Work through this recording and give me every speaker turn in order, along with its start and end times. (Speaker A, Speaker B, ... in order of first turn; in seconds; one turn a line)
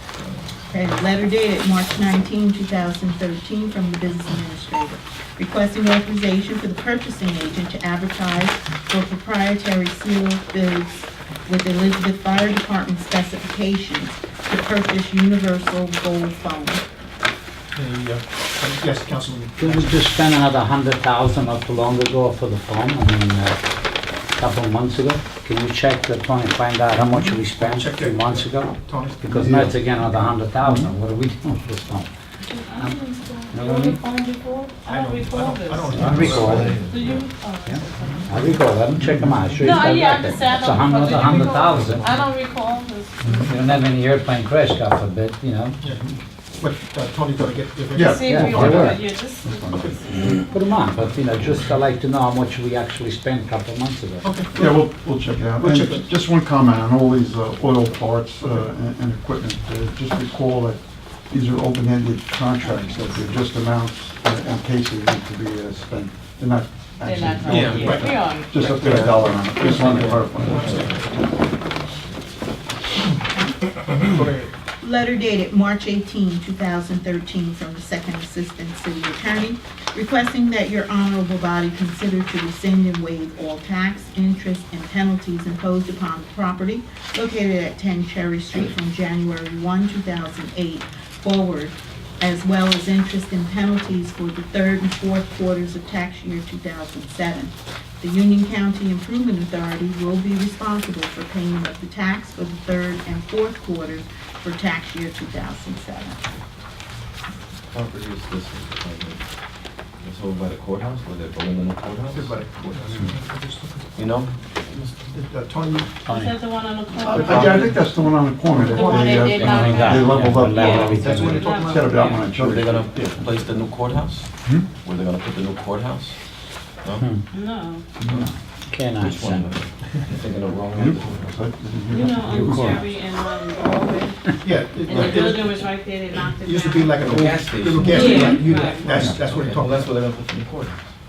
Speaker A: 0.7-16.8
Speaker B: 17.8-19.9
Speaker C: 19.6-23.6
Speaker C: 24.4-32.1
Speaker B: 27.1-29.5
Speaker D: 29.3-30.1
Speaker D: 30.6-30.9
Speaker E: 32.5-38.6
Speaker C: 33.5-34.0
Speaker B: 34.8-36.8
Speaker C: 35.9-36.8
Speaker D: 36.0-36.7
Speaker F: 36.5-37.3
Speaker C: 37.6-42.0
Speaker D: 39.0-39.8
Speaker E: 39.6-43.5
Speaker B: 41.1-42.3
Speaker D: 43.2-43.5
Speaker C: 43.4-45.8
Speaker B: 46.6-49.0
Speaker D: 47.9-50.3
Speaker E: 48.0-50.7
Speaker C: 48.2-49.1
Speaker B: 49.7-50.1
Speaker C: 50.5-54.2
Speaker B: 54.2-54.9
Speaker D: 54.5-70.9
Speaker B: 55.5-56.1
Speaker E: 67.0-69.2
Speaker F: 67.5-68.0
Speaker B: 67.7-69.0
Speaker F: 68.8-71.2
Speaker B: 69.5-71.3
Speaker A: 73.3-73.7
Speaker B: 73.9-74.5
Speaker A: 74.8-106.3
Speaker F: 107.7-109.2
Speaker F: 110.0-112.4
Speaker B: 112.1-113.9
Speaker F: 114.0-115.1
Speaker B: 115.1-115.9
Speaker C: 116.1-116.4
Speaker E: 116.1-122.2
Speaker D: 117.0-123.4
Speaker F: 117.1-117.7
Speaker B: 117.2-117.7
Speaker C: 119.2-121.5
Speaker B: 121.0-122.0
Speaker F: 122.1-124.3
Speaker F: 124.8-126.2
Speaker E: 127.3-127.8
Speaker D: 128.0-128.3
Speaker C: 128.7-129.5
Speaker F: 129.0-131.3
Speaker D: 130.8-132.8
Speaker E: 131.9-134.2
Speaker C: 132.3-132.9
Speaker B: 134.4-135.6
Speaker E: 134.8-137.0
Speaker F: 134.9-135.2
Speaker B: 136.4-140.0
Speaker F: 136.9-140.8
Speaker E: 137.9-138.9
Speaker C: 138.0-138.5
Speaker D: 138.9-139.2